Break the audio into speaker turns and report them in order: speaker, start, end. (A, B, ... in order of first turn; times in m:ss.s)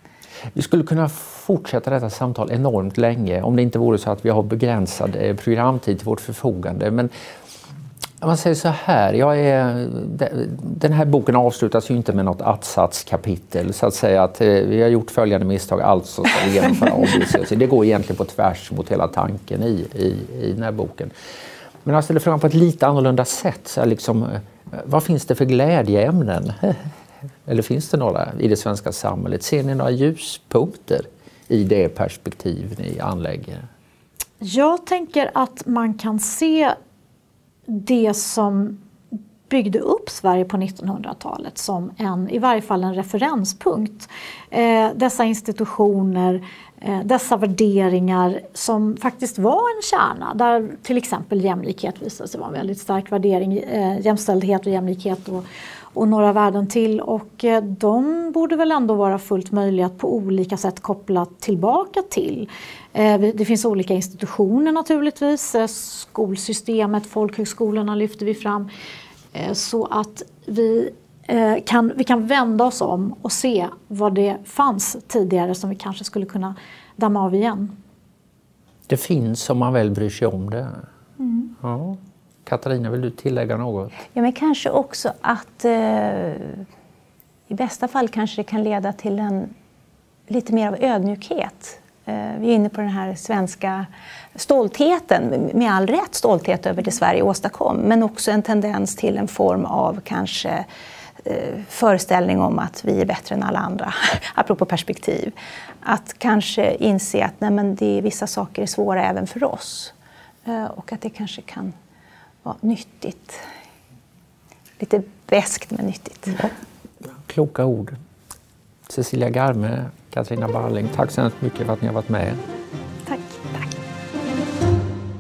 0:00.5-0:07.1 A
0:08.2-0:21.1 A
0:21.8-0:26.8 A
0:27.5-0:33.7 A
0:34.4-0:36.8 B
0:37.7-0:38.8 B
0:39.5-1:08.7 B
1:09.3-1:17.7 B
1:18.9-1:20.8 A
1:21.2-1:21.5 B
1:21.6-1:24.0 A
1:24.2-1:26.6 C
1:27.5-1:29.5 C
1:30.3-1:40.6 C
1:41.2-1:45.3 C
1:45.8-1:49.9 C
1:50.5-1:51.8 C
1:52.4-1:53.4 C
1:54.8-1:56.4 C
1:56.4-1:58.0 A
1:58.9-2:02.4 A
2:03.1-2:03.7 C